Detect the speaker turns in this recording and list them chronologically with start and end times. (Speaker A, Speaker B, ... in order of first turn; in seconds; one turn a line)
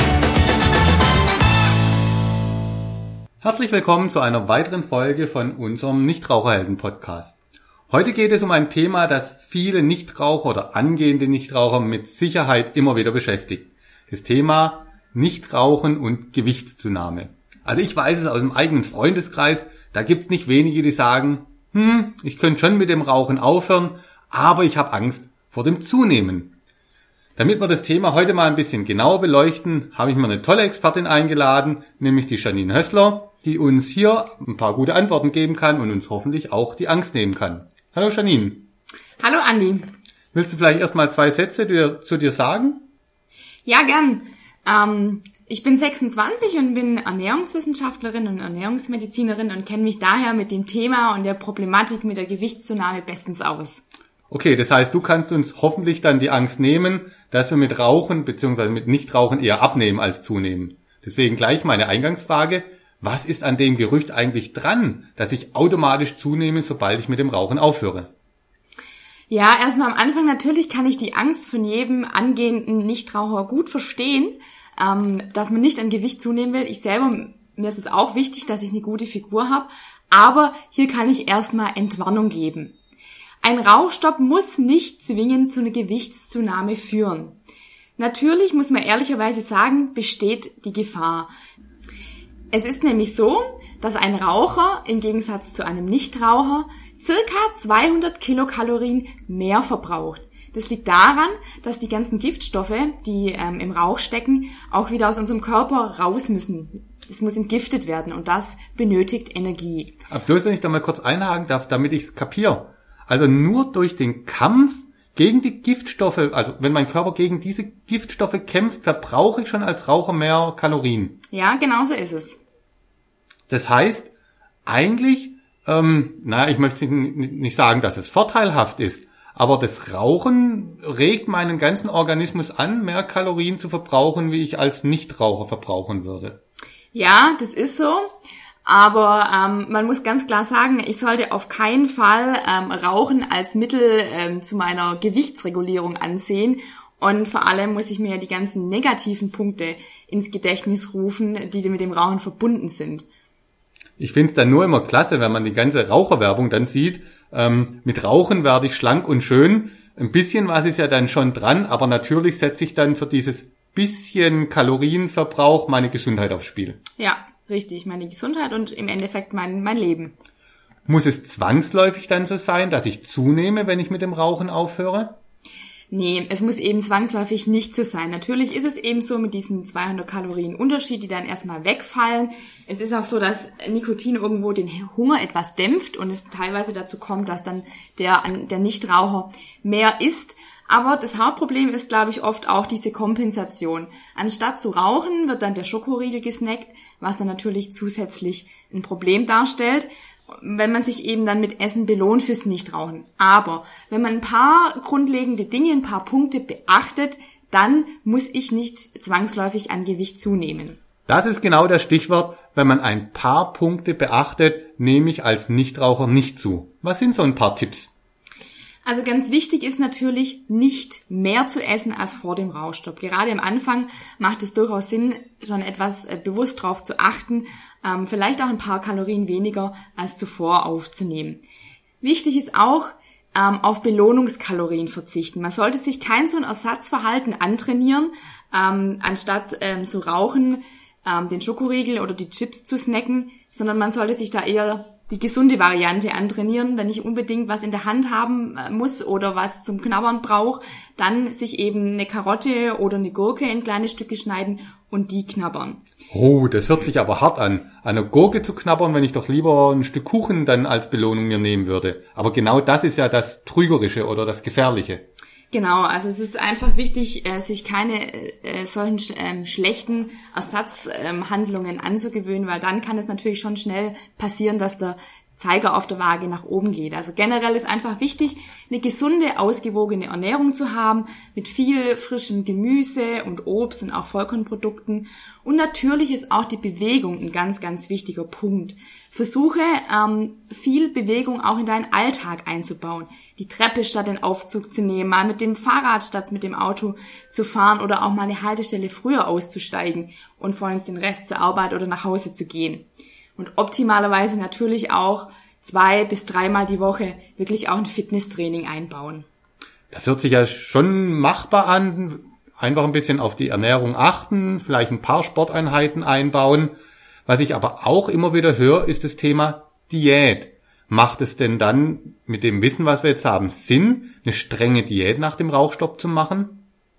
Speaker A: 3.4-7.4
Speaker A: 7.9-26.5
Speaker A: 27.4-38.7
Speaker B: 39.2-39.9
Speaker A: 40.3-42.8
Speaker B: 43.7-53.8
Speaker A: 54.3-68.1
Speaker B: 69.3-82.8
Speaker B: 83.4-87.4
Speaker B: 88.0-91.3
Speaker B: 92.5-110.0
Speaker A: 110.1-121.2
Speaker B: 121.3-122.4
Speaker A: 123.5-124.1
Speaker A: 124.7-136.4
Speaker B: 136.9-138.1
Speaker B: 138.7-153.1
Speaker A: 154.0-166.8
Speaker B: 167.0-170.2
Speaker A: 170.9-175.2
Speaker B: 175.9-210.8
Speaker A: 211.1-217.9
Speaker B: 218.8-231.4
Speaker B: 232.0-255.8
Speaker A: 256.1-265.0
Speaker B: 265.5-309.3
Speaker A: 309.9-316.7
Speaker A: 317.3-326.6